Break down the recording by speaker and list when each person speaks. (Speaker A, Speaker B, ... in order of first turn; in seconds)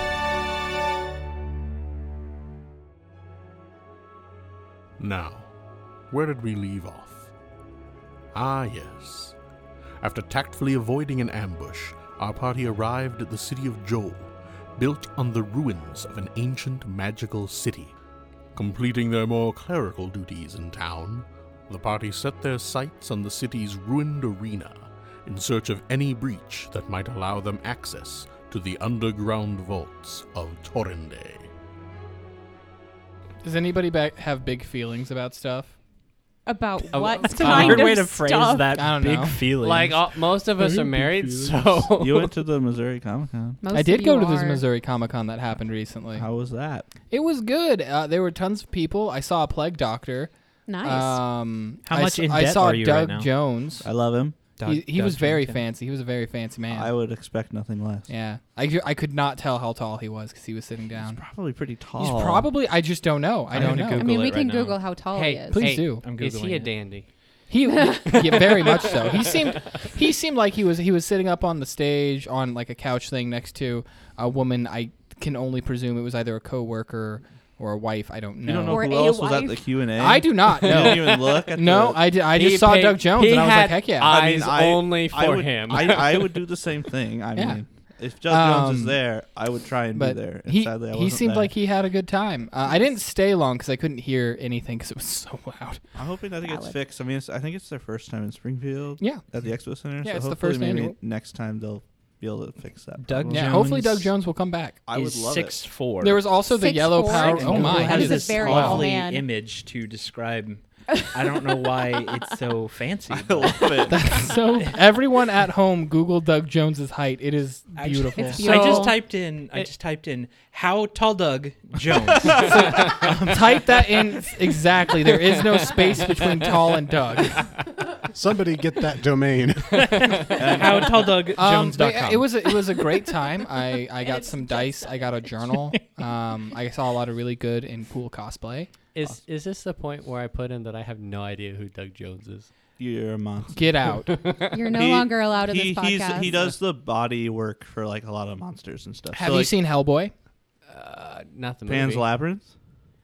Speaker A: 5.0-5.5, 6.1-7.3, 8.3-9.4, 10.0-18.0, 18.5-31.5
Speaker B: 33.4-35.8, 38.8-39.5, 43.7-46.3, 47.1-53.9, 54.6-56.9, 58.1-61.2, 62.0-64.1, 65.5-66.0, 67.5-78.8, 80.0-84.2, 87.4-87.6, 88.3-89.0, 90.0-95.8, 100.0-101.0, 103.3-104.8, 106.0-108.9, 113.9-118.5, 122.4-127.6, 131.3-138.7, 143.6-144.2, 149.2-150.1
Speaker C: 36.5-38.7, 43.6-44.6, 50.7-51.2, 64.0-65.8, 67.7-68.8, 78.7-79.7, 96.4-96.8, 106.4-109.3, 110.9-112.4, 118.3-119.7, 134.0-135.0, 144.5-146.3
Speaker D: 36.9-41.6, 51.8-53.5, 54.6-55.6, 63.5-64.8, 65.8-66.8, 103.0-104.1, 104.9-106.4, 107.2-114.8, 117.8-123.7, 129.8-132.8
Speaker E: 36.9-37.9, 39.6-42.4, 65.1-67.1, 68.1-69.8, 80.6-81.5, 82.3-86.5, 118.4-118.9, 138.9-142.5, 144.1-144.4, 150.7-152.1
Speaker F: 42.0-43.6, 46.2-46.9, 53.8-54.4, 56.7-58.1, 60.9-62.5, 78.4-82.1, 84.1-91.5, 96.0-103.4, 104.9-105.6, 107.2-107.9, 113.1-114.1, 121.9-122.9, 130.4-131.2, 142.8-143.7, 144.7-149.6, 151.7-152.5
Speaker G: 128.1-130.2